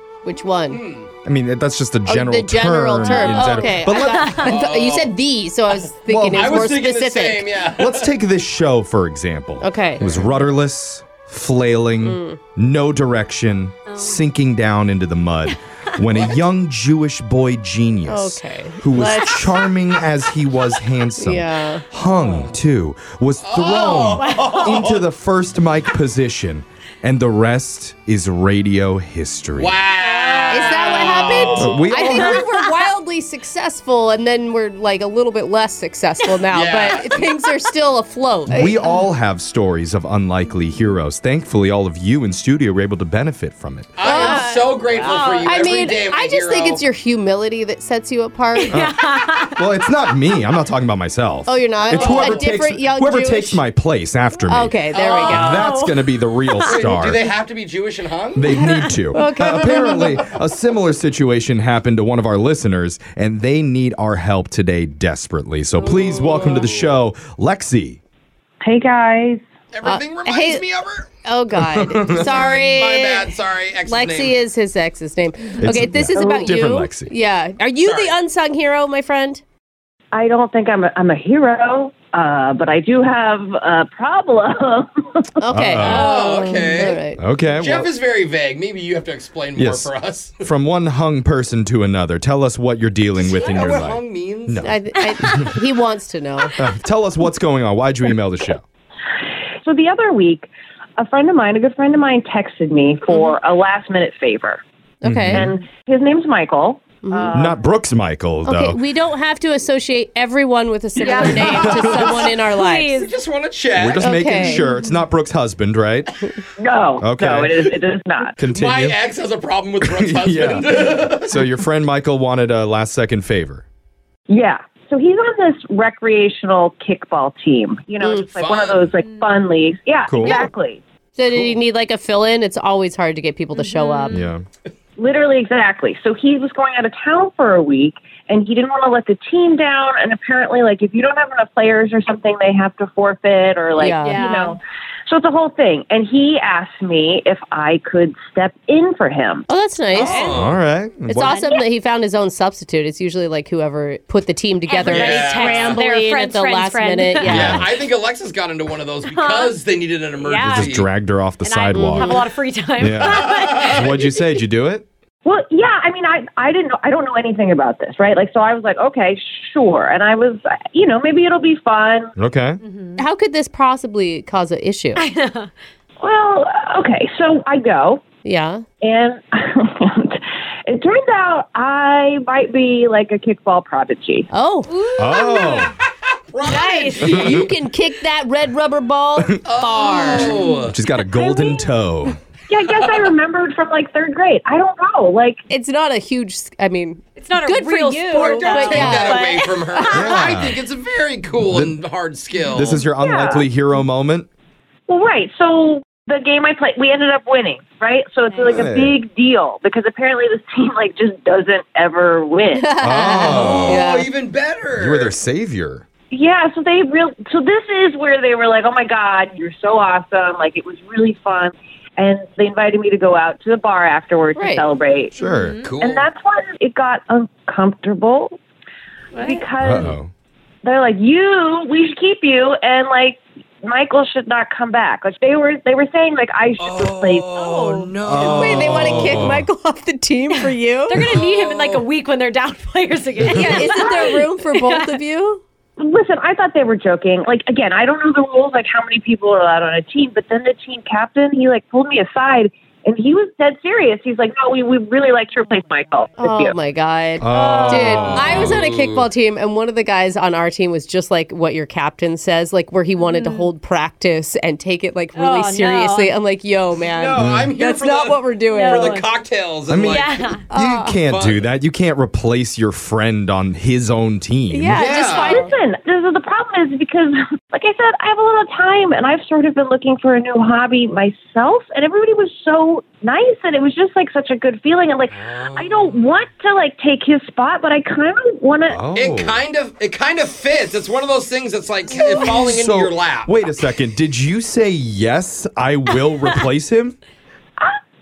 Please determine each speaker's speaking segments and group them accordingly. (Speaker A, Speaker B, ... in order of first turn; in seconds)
Speaker A: 0.2-0.8, 2.1-7.5, 9.6-10.1, 12.0-12.4, 18.1-19.6, 21.2-21.9, 30.5-38.8, 44.0-48.8, 51.5-53.6, 54.5-55.7, 59.1-60.2, 69.8-70.7, 71.2-79.4, 85.4-87.2, 94.6-96.6, 105.0-105.5, 107.0-107.3, 108.5-112.9, 114.0-114.7, 128.0-128.3, 130.2-130.5, 131.2-134.2, 143.8-144.2, 149.5-150.3, 151.1-157.7, 173.0-175.0, 178.2-178.7, 184.3-185.5, 187.1-190.4, 195.5-199.3, 212.6-214.1, 224.4-224.7, 238.2-241.0, 243.4-245.4, 256.2-268.9, 270.5-271.0, 274.5-275.5
Speaker B: 0.7-1.1, 3.0-3.3, 4.4-5.2, 5.8-8.1, 10.0-10.3, 16.1-16.4, 22.1-22.6, 23.4-25.1, 29.5-32.0, 36.5-37.3, 44.0-46.8, 51.9-52.5, 54.9-55.7, 56.6-58.6, 65.9-66.9, 69.7-71.1, 72.2-74.4, 77.8-78.2, 85.8-90.5, 93.2-94.7, 111.6-112.4, 112.9-114.1, 118.4-121.4, 128.2-129.0, 149.9-150.6, 154.8-155.9, 157.2-160.9, 163.0-163.9, 186.3-187.5, 189.4-190.8, 192.8-193.1, 198.1-202.8, 213.1-215.2, 225.4-226.1, 236.6-239.4, 241.1-241.8, 243.4-243.6, 257.4-259.1, 266.8-270.2, 271.1-271.5, 274.7-275.5, 285.1-286.1, 288.9-293.4
Speaker C: 1.2-4.5, 6.1-6.4, 7.8-29.8, 31.5-32.4, 38.5-44.3, 48.7-49.0, 49.5-57.2, 58.4-68.0, 71.7-72.4, 75.6-77.1, 85.5-86.1, 87.2-87.9, 89.6-89.9, 90.4-94.8, 96.6-98.6, 105.0-105.5, 107.3-108.8, 111.2-112.3, 113.8-116.1, 117.0-117.7, 118.4-119.0, 119.8-123.7, 130.1-130.5, 134.1-134.4, 150.3-151.4, 157.2-157.7, 160.4-164.9, 172.2-172.6, 185.0-185.7, 187.1-187.5, 190.7-192.2, 199.9-200.6, 201.4-201.8, 202.5-204.3, 208.5-209.0, 212.8-213.8, 214.7-215.9, 225.2-225.6, 229.6-230.1, 238.0-239.4, 243.2-243.6, 257.2-258.6, 267.1-267.6, 269.7-274.9, 288.7-289.4, 292.4-297.0
Speaker D: 3.1-4.5, 13.9-14.2, 15.5-16.0, 24.2-24.6, 30.0-32.0, 48.5-49.7, 55.5-56.8, 58.6-58.9, 111.0-111.7, 112.5-113.1, 129.0-129.3, 133.5-134.3, 143.9-144.6, 151.1-151.7, 154.7-157.5, 159.0-159.6, 160.2-160.8, 161.4-163.9, 172.6-173.0, 174.9-175.5, 184.7-185.7, 186.4-187.1, 190.0-190.4, 197.2-200.1, 208.3-208.7, 225.2-225.8, 229.1-229.5, 237.3-237.9, 240.3-245.0, 257.4-257.8, 262.9-263.5, 265.1-266.1, 268.5-269.1, 269.8-270.4
Speaker E: 68.6-69.4, 76.2-76.5, 80.1-85.2, 99.6-104.6, 105.3-107.6, 111.0-111.5, 116.6-118.3, 124.3-130.8, 135.0-149.5, 165.2-172.1, 176.0-178.0, 178.8-184.3, 191.1-191.6, 192.5-195.4, 202.9-203.5, 204.9-212.7, 216.1-225.2, 225.8-228.4, 229.2-230.0, 230.6-237.3, 243.8-244.2, 245.8-256.6, 275.1-288.8